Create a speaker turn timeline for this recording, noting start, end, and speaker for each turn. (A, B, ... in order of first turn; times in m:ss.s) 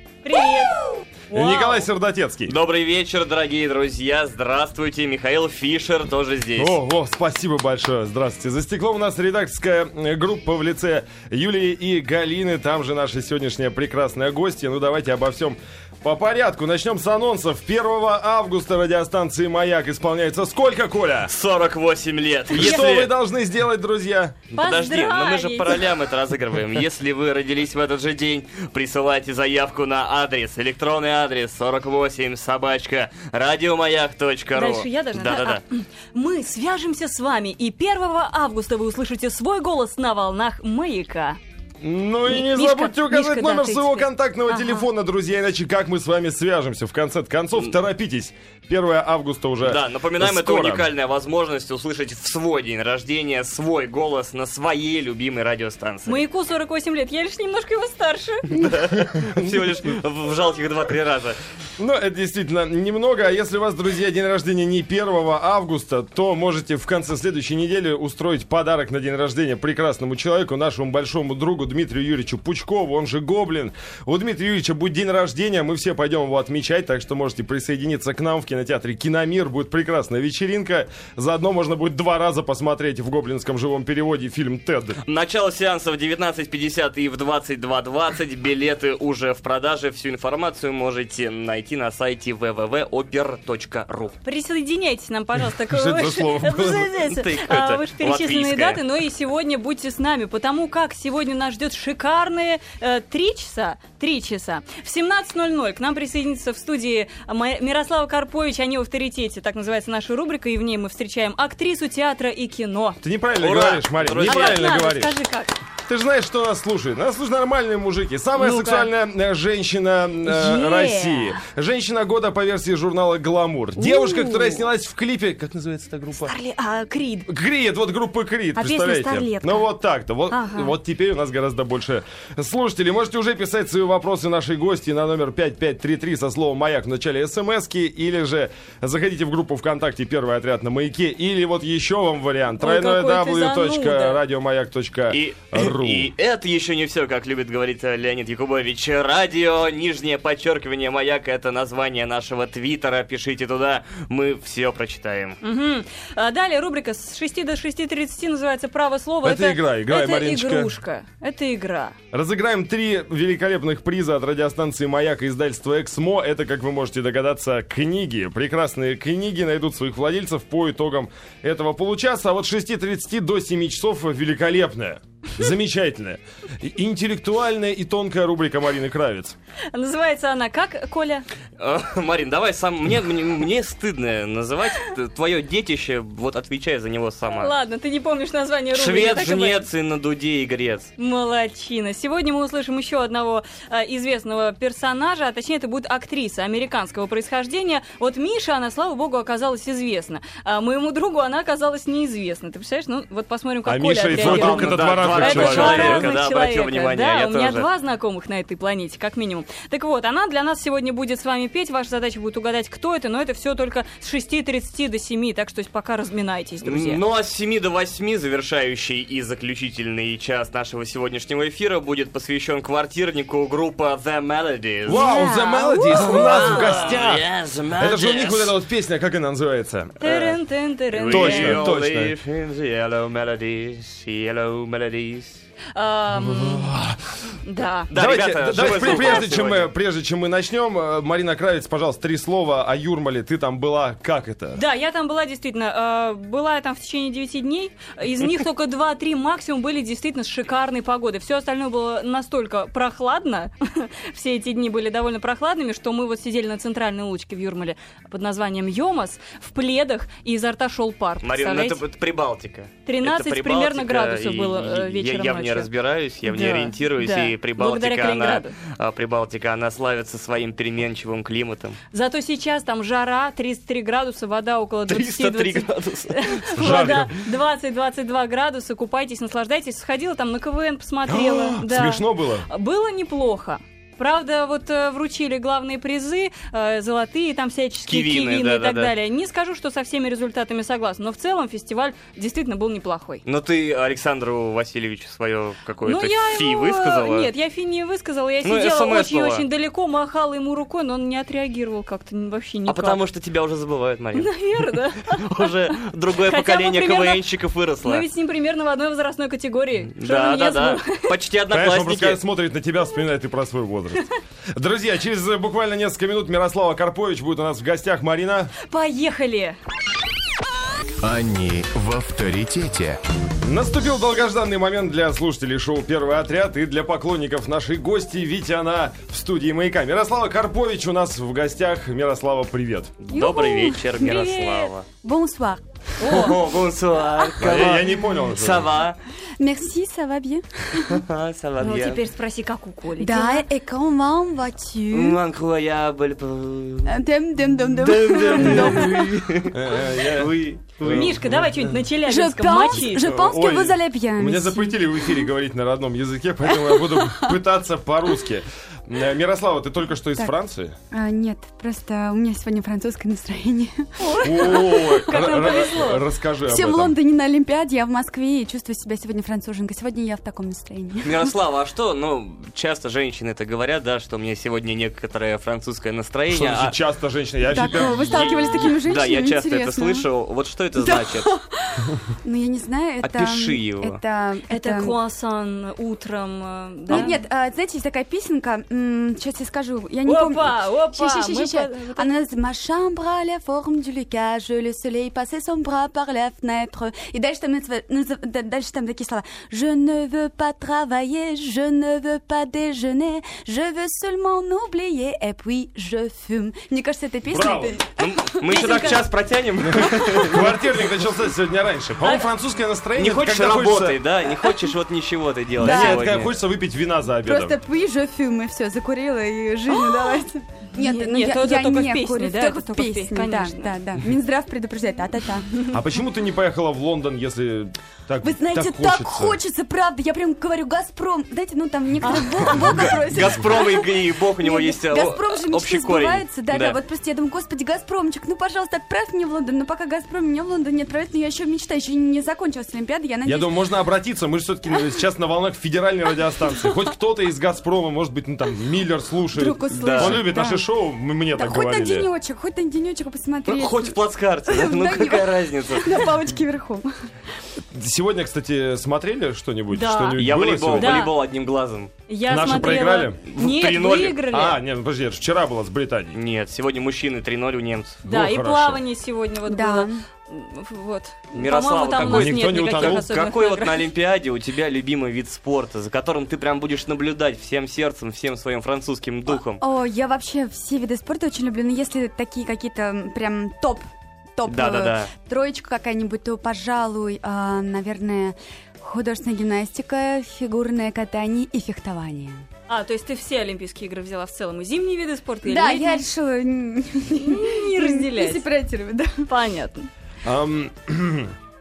0:00.2-0:01.8 A
0:01.3-0:02.6 B
0:02.5-0:06.7 C
0:06.6-0:21.3 B
0:21.3-0:23.1 C
0:22.5-0:24.5 B
0:22.5-0:22.9 A
0:24.5-0:35.6 C
0:24.5-0:25.9 A
0:34.5-0:41.4 A
0:41.8-0:50.9 B
0:42.2-0:44.9 A
0:49.6-0:56.2 C
0:56.1-0:58.7 A
0:58.5-1:01.4 C
0:59.2-0:59.5 B
1:01.8-1:25.0 B
1:25.0-1:34.2 C
1:34.2-1:53.0 A
1:35.6-1:37.0 B
1:37.0-1:38.8 C
1:53.0-1:55.2 B
1:53.4-1:54.7 C
1:54.2-1:55.6 A
1:55.8-2:06.3 B
1:58.4-1:58.9 A
2:00.2-2:01.4 A
2:03.8-2:04.6 A
2:06.2-2:07.3 A
2:07.3-2:26.1 B
2:08.6-2:09.6 A
2:10.3-2:10.7 A
2:22.6-2:24.2 A
2:25.1-2:35.4 C
2:35.4-2:41.9 A
2:39.2-2:40.7 B
2:42.1-2:59.4 B
2:59.7-3:01.2 A
3:01.6-3:07.5 C
3:07.3-3:09.6 A
3:08.7-3:10.9 C
3:11.0-3:37.0 A
3:23.6-3:26.1 B
3:24.1-3:27.7 C
3:36.6-3:45.0 C
3:44.8-3:49.9 B
3:44.9-3:46.6 A
3:45.1-3:45.5 D
3:45.9-3:48.5 C
3:50.0-3:50.4 C
3:50.0-3:51.7 A
3:50.9-3:55.4 C
3:51.1-3:52.1 B
3:55.7-3:56.7 A
3:56.1-3:57.1 B
3:57.4-3:57.9 A
3:57.9-3:59.7 C
3:57.9-4:04.6 B
3:58.6-3:59.2 A
4:04.6-4:21.8 A
4:21.2-4:31.8 C
4:22.8-4:25.7 A
4:26.2-4:28.5 A
4:31.9-4:53.2 A
4:34.9-4:36.8 C
4:36.6-4:37.2 B
4:41.0-4:42.5 B
4:47.9-4:48.9 C
4:53.2-4:57.3 C
4:55.8-5:03.0 A
4:58.4-4:59.4 C
5:02.7-5:04.3 C
5:04.2-5:05.5 A
5:05.0-5:08.1 C
5:06.2-5:07.3 A
5:07.8-5:11.1 A
5:09.9-5:12.2 C
5:11.5-5:18.5 B
5:18.6-5:19.6 A
5:21.0-5:23.0 E
5:23.4-5:32.9 B
5:33.0-5:34.8 C
5:33.1-5:34.7 A
5:35.0-5:35.6 D
5:36.0-5:36.4 A
5:36.0-5:39.0 C
5:37.4-5:38.7 B
5:39.4-5:40.9 D
5:40.8-5:42.0 C
5:41.6-5:43.4 A
5:43.0-5:45.2 D
5:44.9-5:46.9 C
5:46.8-5:49.1 D
5:47.7-5:51.2 C
5:49.5-5:51.7 B
5:50.8-5:53.0 A
5:52.0-5:54.9 D
5:52.9-6:00.7 B
5:56.6-5:57.3 D
6:00.9-6:05.7 D
6:04.0-6:06.0 A
6:04.2-6:07.0 B
6:06.4-6:11.3 D
6:11.0-6:16.7 C
6:16.3-6:18.3 B
6:17.5-6:20.0 D
6:18.0-6:21.3 C
6:20.8-6:25.0 D
6:23.0-6:24.0 C
6:24.5-6:27.2 A
6:26.9-6:49.1 D
6:30.0-6:32.1 A
6:47.3-6:47.8 B
6:48.0-6:50.5 C
6:49.6-6:54.0 B
6:53.0-6:56.3 C
6:55.6-6:57.5 B
6:55.6-6:56.2 D
6:57.2-7:05.5 D
6:59.7-7:00.2 A
7:00.8-7:03.7 A
7:05.6-7:09.4 B
7:08.2-7:23.5 D
7:12.0-7:12.9 A
7:12.5-7:16.8 C
7:23.2-7:32.1 B
7:29.3-7:30.6 D
7:29.8-7:30.2 C
7:31.3-7:36.9 D
7:33.5-7:36.0 C
7:37.7-7:41.1 B
7:39.7-7:40.2 A
7:40.1-7:41.9 C
7:40.7-7:41.2 A
7:42.1-7:44.6 A
7:42.3-7:43.2 B
7:43.2-7:44.4 C
7:44.3-7:46.2 B
7:46.1-7:48.0 C
7:48.0-7:48.8 B
7:48.0-7:53.9 A
7:49.5-7:50.0 D
7:51.3-7:59.6 C
7:52.0-7:53.1 B
7:59.6-8:03.8 D
8:04.4-8:12.4 D
8:04.5-8:05.1 C
8:12.7-8:16.0 A
8:15.4-8:19.3 D
8:17.2-8:18.4 A
8:19.3-8:19.9 A
8:20.2-8:21.3 B